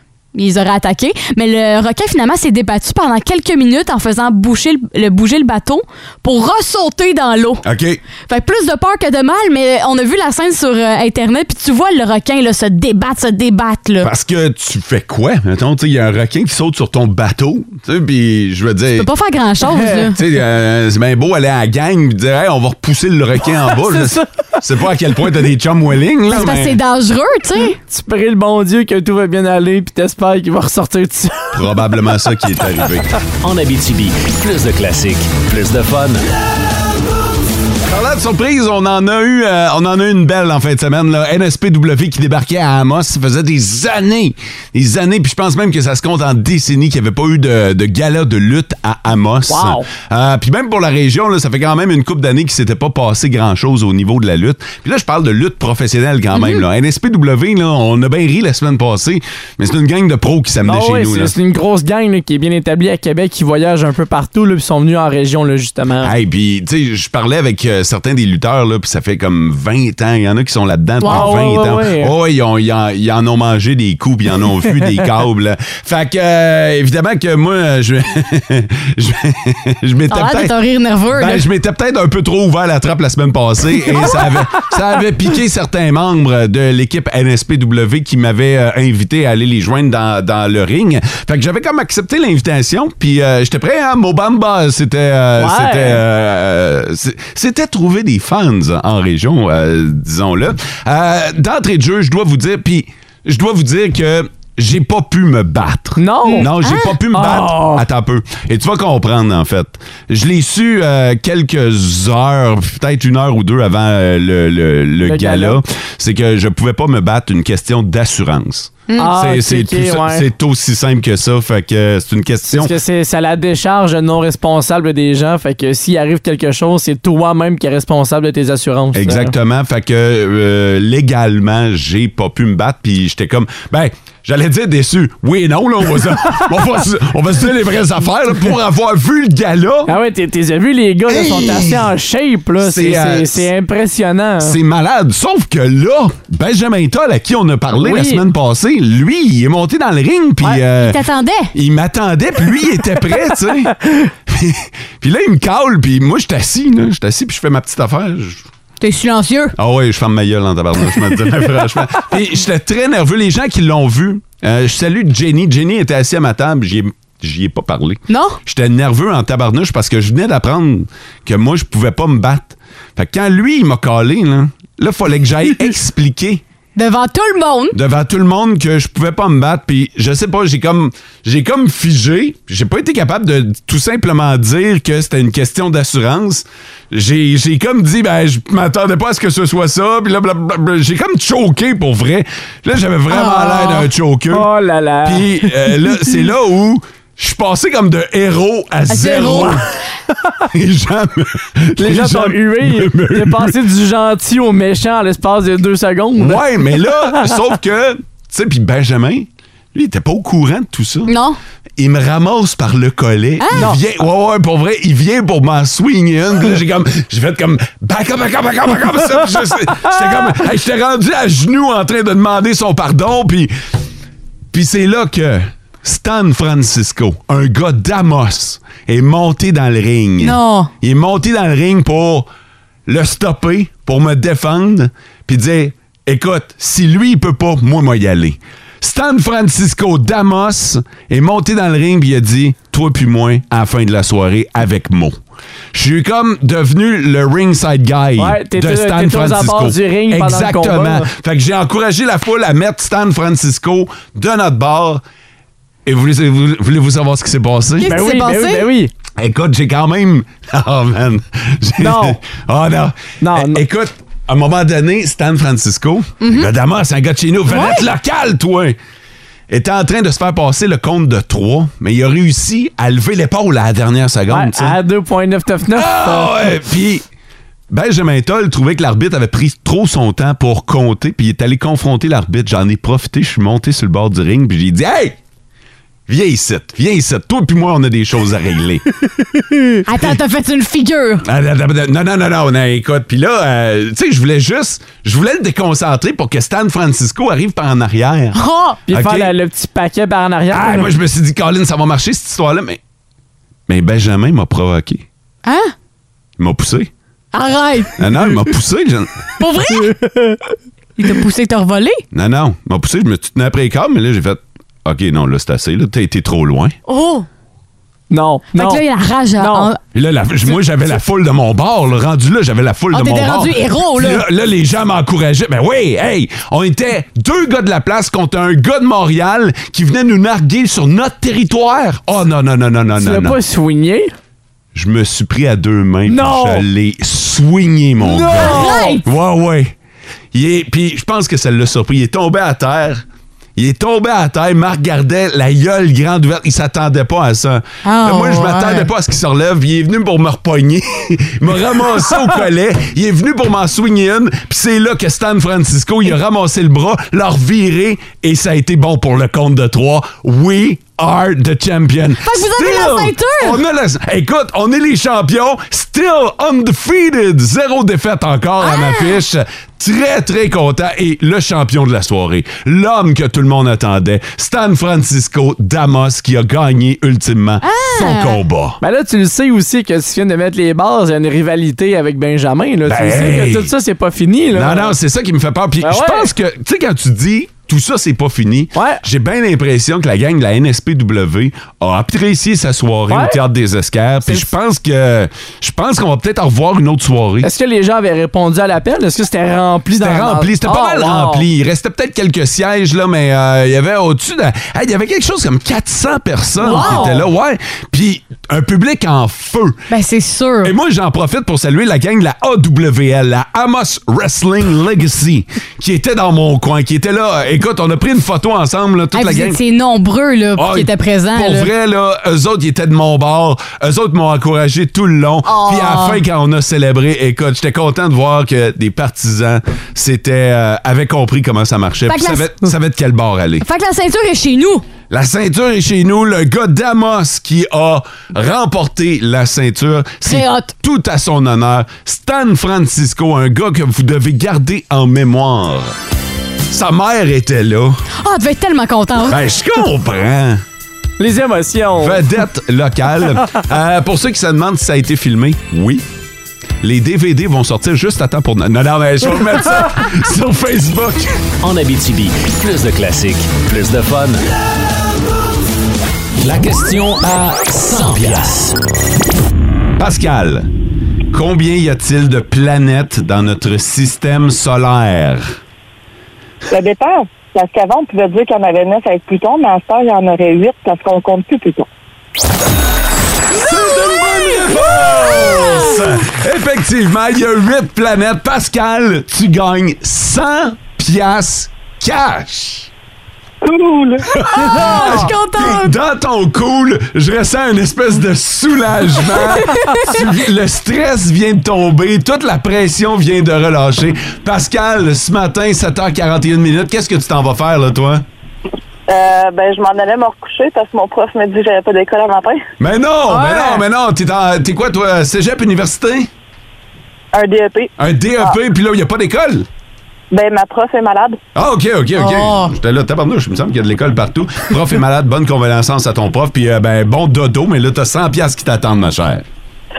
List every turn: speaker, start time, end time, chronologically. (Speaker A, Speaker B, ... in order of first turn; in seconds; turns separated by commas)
Speaker A: 0.3-7.6, Speaker B: 7.6-8.0, Speaker A: 8.3-14.1, Speaker B: 14.0-19.1, Speaker A: 18.9-20.2, Speaker C: 19.6-20.1, Speaker B: 20.1-26.8, Speaker C: 23.7-24.2, Speaker A: 26.3-27.8, Speaker C: 27.9-31.6, Speaker B: 31.5-33.1, Speaker D: 33.4-36.2, Speaker B: 37.9-61.3, Speaker C: 49.5-49.9, Speaker C: 60.6-66.1, Speaker B: 66.0-80.5, Speaker A: 71.0-71.3, Speaker C: 71.0-72.1, Speaker A: 80.1-81.4, Speaker B: 81.1-122.7, Speaker C: 95.4-96.0, Speaker C: 106.0-106.5, Speaker A: 106.3-106.9, Speaker C: 107.1-107.8, Speaker C: 115.0-115.6, Speaker A: 118.9-119.1, Speaker C: 119.0-120.2, Speaker C: 122.5-129.3, Speaker B: 128.9-139.9, Speaker C: 139.9-144.6, Speaker B: 142.6-143.5, Speaker B: 144.4-151.0, Speaker C: 147.8-148.2, Speaker A: 150.8-151.5, Speaker B: 151.5-153.7, Speaker B: 154.3-158.4, Speaker A: 158.8-159.5, Speaker B: 159.6-176.4, Speaker A: 168.1-168.4, Speaker A: 176.8-177.8, Speaker B: 177.7-194.5, Speaker A: 193.1-193.8, Speaker C: 194.3-196.0, Speaker B: 195.0-199.7, Speaker A: 198.9-199.6, Speaker B: 200.5-203.6, Speaker C: 201.8-207.3, Speaker B: 206.2-211.1, Speaker A: 211.1-211.4, Speaker B: 211.8-223.5, Speaker A: 213.4-213.7, Speaker B: 224.5-232.3, Speaker A: 230.2-230.7, Speaker B: 232.9-245.2, Speaker B: 245.7-255.0, Speaker C: 248.2-251.1, Speaker B: 255.8-257.9, Speaker A: 257.8-258.7, Speaker C: 257.8-258.9, Speaker B: 259.2-268.8, Speaker C: 261.8-262.2, Speaker C: 263.2-263.6, Speaker A: 266.2-266.5, Speaker A: 267.5-267.9, Speaker B: 269.5-274.8, Speaker C: 274.3-276.4, Speaker B: 275.7-277.0, Speaker B: 277.7-285.2, Speaker B: 286.1-288.8, Speaker A: 289.8-291.2, Speaker B: 291.2-299.3, Speaker A: 298.3-298.8, Speaker C: 298.9-300.9, Speaker B: 300.5-302.8, Speaker B: 303.7-305.1, Speaker A: 305.4-305.7, Speaker B: 306.4-306.9, Speaker A: 307.3-307.9, Speaker B: 308.0-309.2, Speaker A: 309.4-309.9, Speaker C: 309.8-310.5, Speaker A: 311.0-312.0, Speaker B: 312.1-316.7, Speaker A: 316.9-317.2, Speaker C: 318.1-318.8, Speaker A: 318.5-319.8, Speaker C: 319.4-319.7, Speaker B: 319.9-333.4, Speaker A: 322.9-324.2, Speaker C: 332.9-334.1, Speaker B: 334.7-339.7, Speaker C: 336.1-336.6, Speaker C: 338.0-339.0, Speaker A: 338.4-339.0, Speaker B: 340.3-343.0, Speaker B: 343.6-378.8, Speaker A: 347.8-348.9, Speaker A: 362.2-363.6, Speaker A: 368.6-369.1, Speaker A: 377.6-378.4, Speaker C: 378.8-384.9, Speaker B: 382.8-383.7, Speaker B: 384.5-397.5, Speaker C: 385.8-386.3, Speaker C: 388.7-389.0, Speaker C: 393.1-393.4, Speaker C: 397.4-401.4, Speaker B: 400.0-409.8, Speaker C: 406.6-407.2, Speaker A: 406.6-407.2, Speaker A: 409.9-410.7, Speaker B: 410.6-419.6, Speaker A: 419.1-421.7, Speaker B: 420.6-433.6, Speaker A: 425.4-426.2, Speaker A: 432.1-432.7, Speaker A: 433.6-434.8, Speaker B: 435.1-445.9, Speaker A: 440.2-440.7, Speaker B: 446.7-448.0, Speaker A: 448.2-449.4, Speaker B: 449.2-450.6, Speaker C: 451.2-452.2, Speaker B: 452.0-456.0, Speaker B: 456.8-461.3, Speaker D: 461.6-464.4, Speaker D: 466.4-468.7, Speaker B: 470.0-470.7, Speaker B: 471.3-475.5, Speaker E: 476.7-481.9, Speaker B: 483.5-492.9, Speaker E: 493.6-494.3, Speaker B: 494.3-508.2, Speaker A: 494.5-495.9, Speaker A: 499.6-500.1, Speaker E: 509.1-512.6, Speaker B: 512.8-516.3, Speaker A: 513.3-513.8, Speaker E: 517.3-518.6, Speaker B: 518.0-519.6, Speaker E: 520.3-521.4, Speaker B: 521.5-529.4, Speaker A: 522.2-522.7